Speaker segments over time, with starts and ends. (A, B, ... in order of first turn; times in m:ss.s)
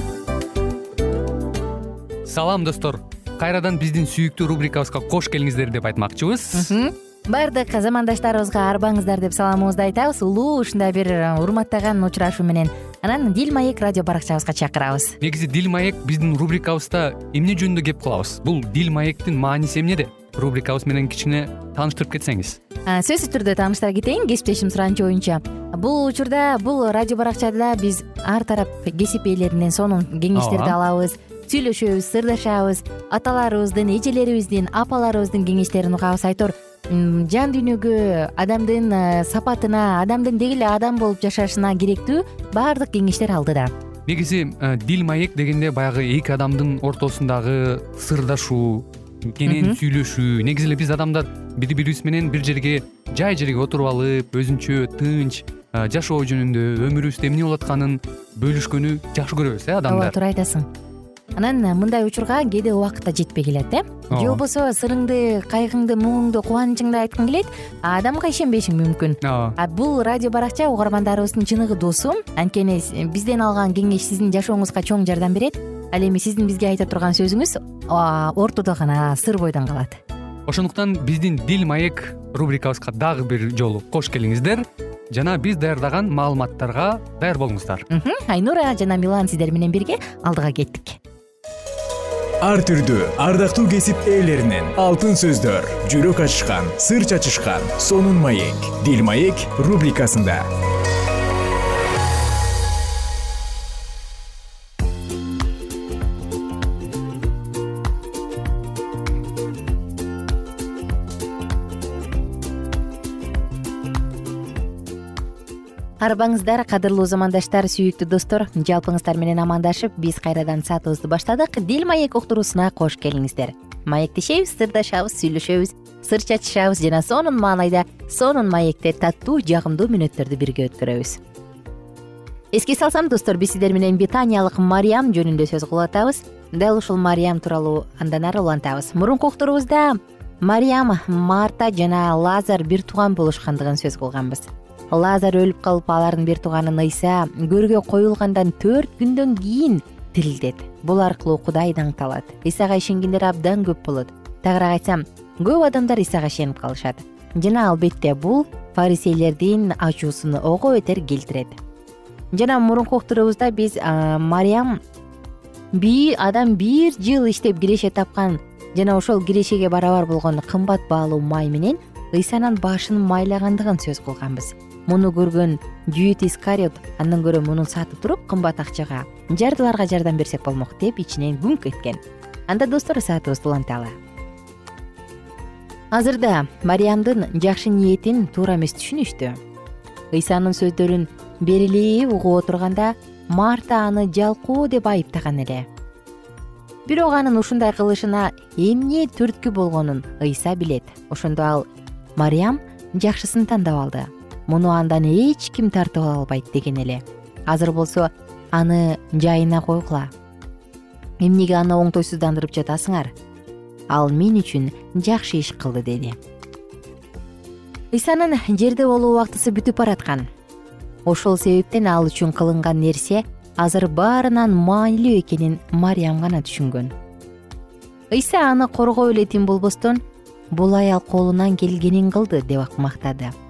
0:02.2-0:06.7 A
0:06.5-0:15.2 B
0:15.2-0:22.6 A
0:22.9-0:43.7 B
0:30.4-0:30.8 A
0:44.1-1:00.1 A
0:49.5-0:49.8 B
0:59.9-1:00.7 B
1:01.4-1:20.0 B
1:04.1-1:04.4 A
1:09.2-1:09.6 A
1:20.5-1:27.8 A
1:27.9-1:31.0 B
1:32.4-1:40.4 C
1:56.0-2:11.2 B
2:12.5-2:41.6 B
2:42.3-2:44.8 B
2:45.8-3:04.0 B
3:05.9-3:09.4 B
3:10.1-3:15.7 B
3:16.9-3:30.1 B
3:31.2-3:33.1 B
3:33.9-3:36.2 B
3:37.9-3:40.3 B
3:41.1-3:46.9 B
3:48.1-3:50.0 B
3:50.5-3:53.3 B